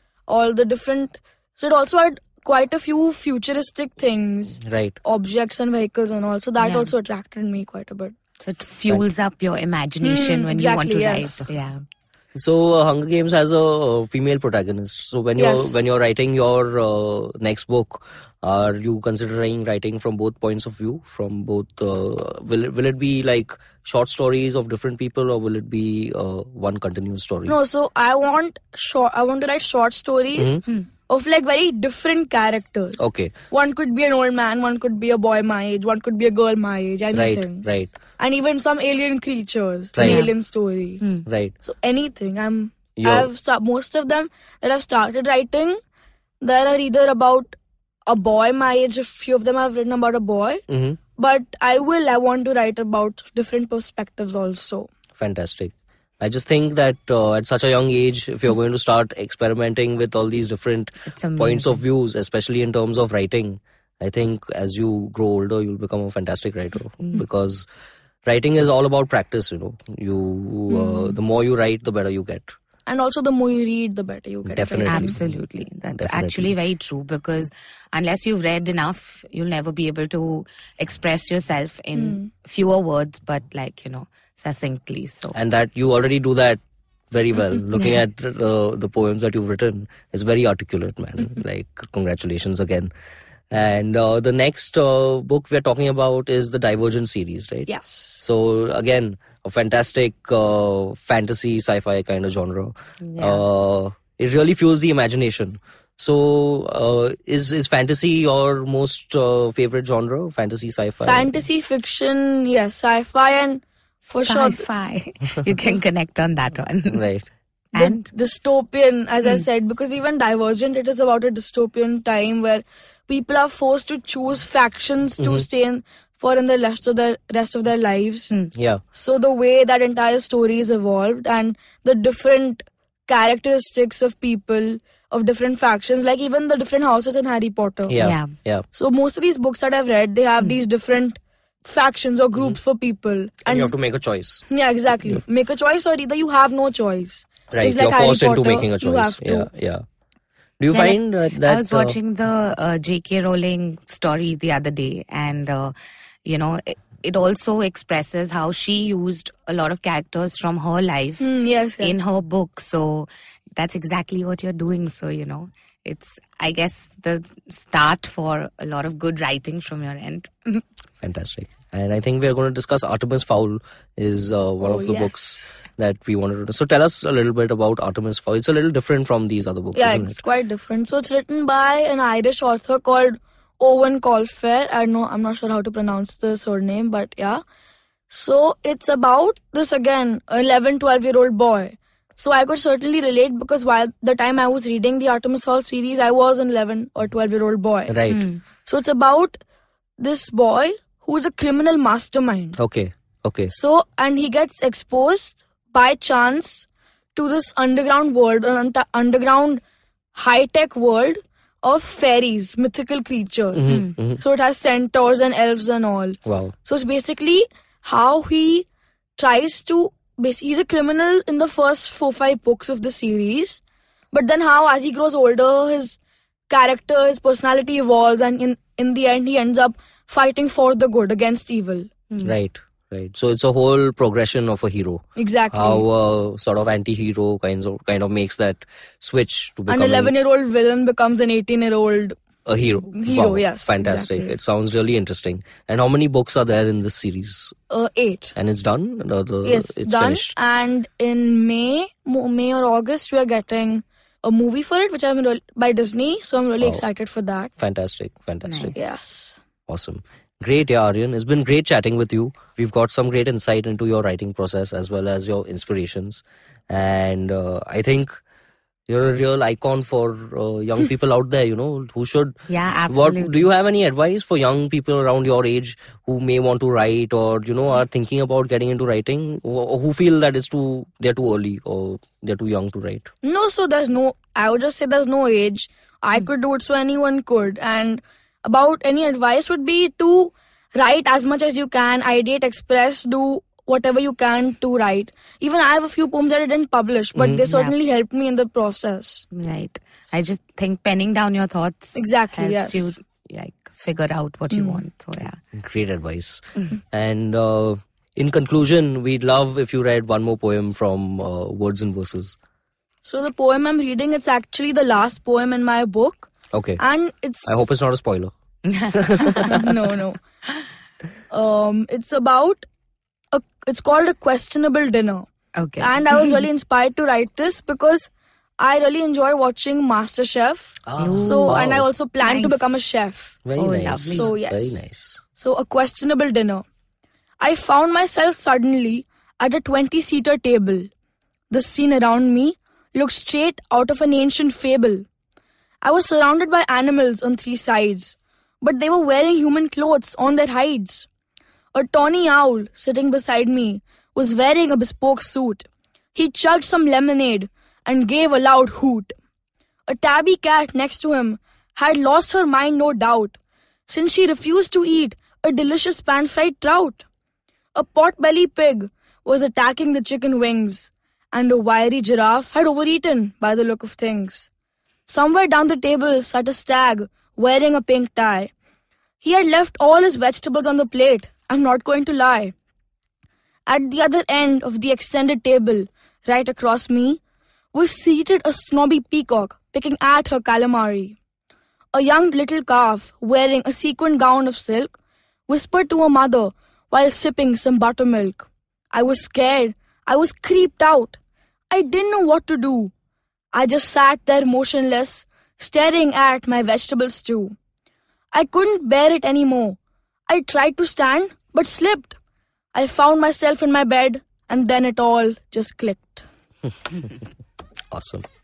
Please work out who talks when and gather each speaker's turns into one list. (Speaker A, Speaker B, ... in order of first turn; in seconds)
Speaker A: 0.3-8.2, 10.0-11.5, 15.4-15.8, 27.5-37.6, 38.2-41.0, 41.6-45.8, 46.4-47.5, 48.1-50.6, 51.2-54.9, 72.9-75.2, 81.9-82.3, 97.7-98.2, 111.0-114.7, 117.7-128.4, 128.9-138.0, 138.7-143.7, 144.5-149.5, 161.2-161.9, 174.6-175.7, 179.7-187.4, 188.1-198.0, 198.7-199.4, 200.0-202.6, 203.5-209.6, 210.1-223.6, 224.1-226.0, 226.5-231.9, 235.2-235.9, 239.7-242.2, 242.9-244.3, 247.7-248.3, 249.4-257.5, 258.8-259.4, 283.2-299.3, 301.9-303.0, 304.5-304.8, 313.0-317.7, 319.4-320.2, 321.3-322.6, 323.3-333.4, 334.1-334.8, 335.4-336.6, 337.4-340.9, 341.5-345.1, 345.8-351.1, 351.7-359.1, 359.9-363.4, 363.9-367.0, 367.8-374.5, 375.1-378.5, 379.2-382.5, 383.7-387.2, 387.7-391.2, 391.9-394.9, 395.5-401.2, 401.7-402.9, 403.5-407.6, 408.3-409.8, 410.3-412.2, 412.7-416.3
Speaker B: 4.6-5.0, 12.3-27.6, 30.4-30.6, 33.0-33.3, 37.1-37.9, 39.9-40.3, 41.3-41.5, 43.0-43.3, 50.7-51.0, 55.2-67.7, 68.2-72.5, 74.5-75.4, 76.0-76.5, 85.3-92.9, 93.5-111.3, 116.9-117.3, 125.2-125.4, 128.6-128.8, 137.9-138.7, 143.5-144.4, 147.5-149.8, 150.6-152.0, 171.0-180.2, 197.9-198.2, 202.6-203.5, 213.5-214.2, 216.2-216.5, 232.2-240.1, 242.5-247.6, 248.3-250.4, 257.6-258.8, 259.7-268.2, 268.9-283.1, 297.1-297.4, 305.5-312.4, 316.5-316.8, 317.5-318.3, 318.9-319.7, 330.9-331.9, 333.4-335.2, 417.9-418.3
Speaker C: 6.6-6.9, 8.4-11.8, 40.0-40.3, 41.0-41.3, 61.1-61.8, 70.7-71.2, 74.9-85.4, 103.1-103.4, 114.1-117.1, 117.8-118.1, 138.0-138.3, 150.7-155.7, 156.2-170.6, 198.1-198.4, 258.5-258.9, 272.5-273.5, 297.5-297.7, 299.3-305.4, 318.6-319.7, 325.6-326.4, 331.0-331.6, 332.2-332.8, 333.6-334.3